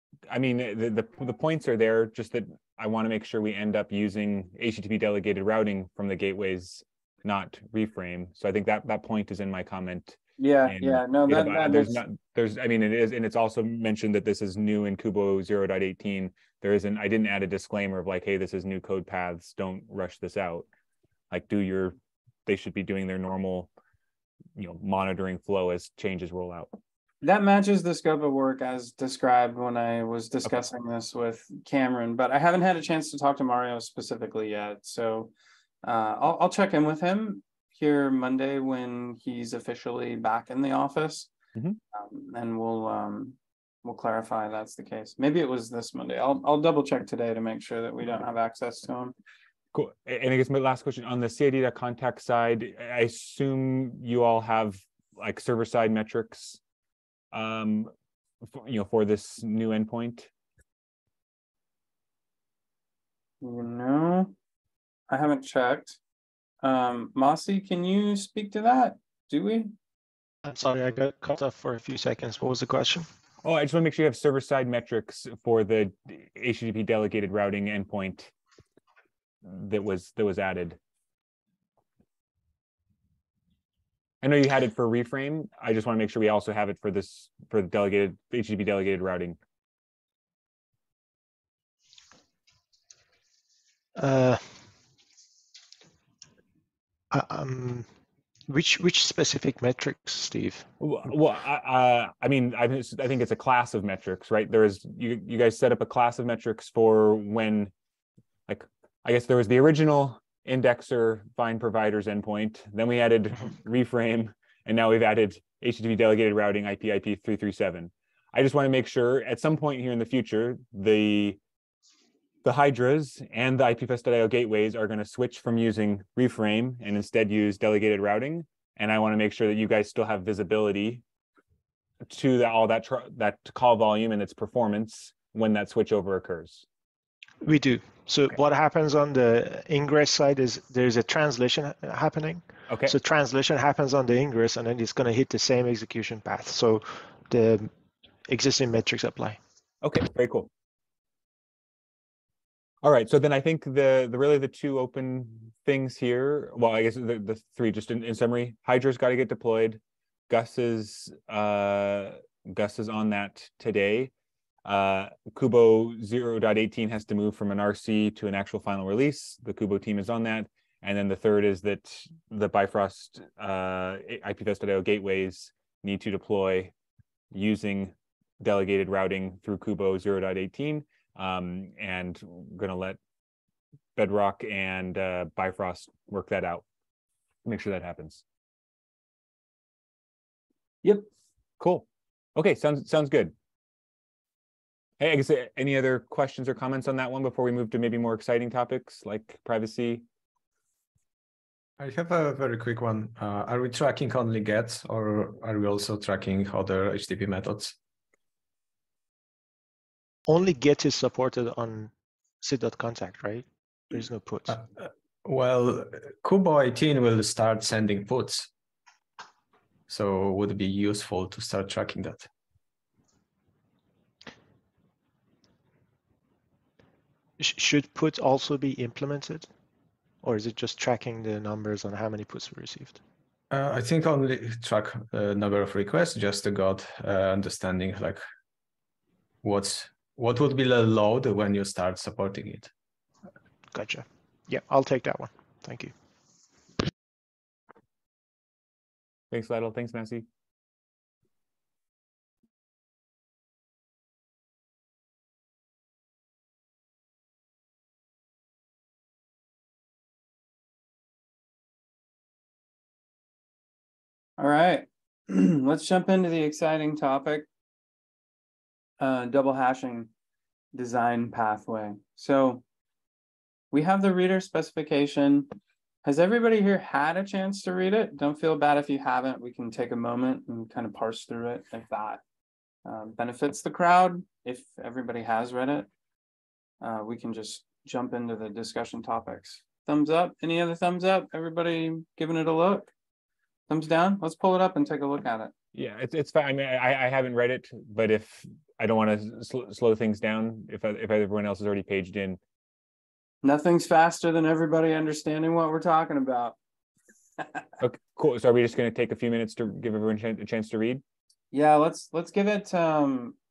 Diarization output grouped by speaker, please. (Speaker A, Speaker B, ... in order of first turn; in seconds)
Speaker A: 0.3-20.7, 21.3-23.7, 24.6-26.8, 49.7-56.6, 57.3-57.9, 58.5-60.3, 73.4-78.3, 79.4-80.8, 84.2-89.4, 100.8-107.7, 108.5-121.4, 122.4-131.0, 132.1-136.7, 149.8-150.5, 152.8-164.1, 164.7-176.7, 177.3-183.0, 184.0-186.6, 187.4-188.2, 191.6-193.3, 195.0-200.0, 249.3-250.2, 295.7-302.4, 307.8-311.0
Speaker B: 10.4-12.0, 27.2-35.3, 35.8-41.3, 41.9-49.1, 63.4-64.3, 65.1-66.0, 66.6-69.7, 264.4-267.5, 269.0-270.1, 270.7-272.6, 273.7-275.5, 276.0-282.2, 282.9-285.9, 286.8-292.9, 293.7-295.5, 303.4-306.6, 311.5-313.4
Speaker C: 70.4-73.1, 94.0-94.6, 97.1-97.9, 98.5-100.7, 137.4-147.7, 148.3-149.4, 210.3-214.6, 227.4-229.5, 230.2-233.0, 243.7-245.9
Speaker D: 201.8-207.8, 214.5-218.5, 219.9-222.3, 233.5-238.2, 239.4-242.7